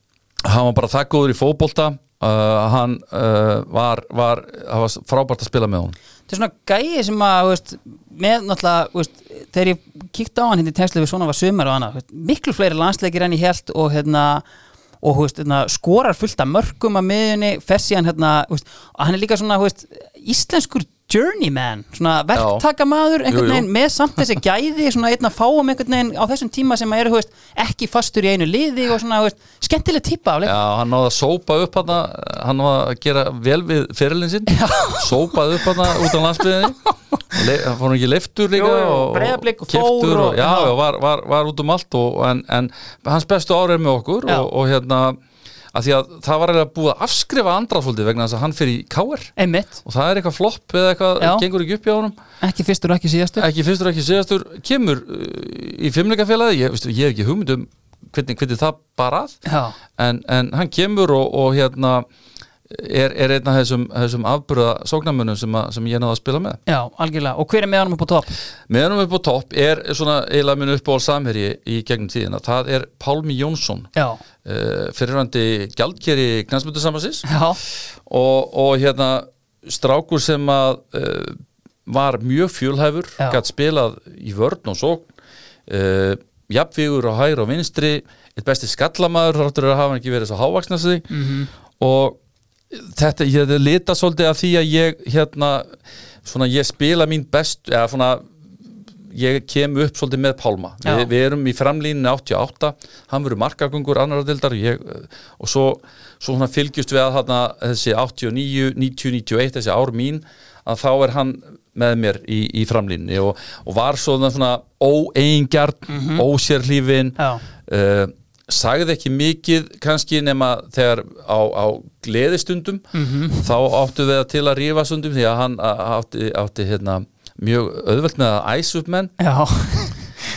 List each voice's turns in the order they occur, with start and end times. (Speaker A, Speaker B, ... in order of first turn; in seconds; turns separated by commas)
Speaker A: 0.5-6.0, Speaker B: 6.3-14.4, Speaker B: 15.0-30.6, Speaker A: 22.4-22.6, Speaker A: 23.3-23.7, Speaker A: 30.4-45.2, Speaker B: 34.5-35.6, Speaker B: 38.5-40.7, Speaker A: 45.7-49.3, Speaker B: 49.4-49.8, Speaker A: 49.9-52.2, Speaker B: 51.2-51.5, Speaker B: 52.4-53.5, Speaker A: 53.4-59.4, Speaker B: 59.5-59.8, Speaker A: 60.0-62.0, Speaker A: 62.7-66.6, Speaker B: 66.7-68.3, Speaker A: 68.7-73.9, Speaker A: 74.4-77.3, Speaker B: 77.2-77.6, Speaker A: 78.1-85.1, Speaker A: 85.7-91.2, Speaker B: 91.1-91.5, Speaker A: 91.8-92.2, Speaker A: 92.7-98.2, Speaker A: 99.1-122.8, Speaker B: 100.8-101.1, Speaker B: 115.9-116.2, Speaker B: 117.2-117.4, Speaker B: 122.9-123.5, Speaker A: 123.4-129.1, Speaker B: 129.2-130.0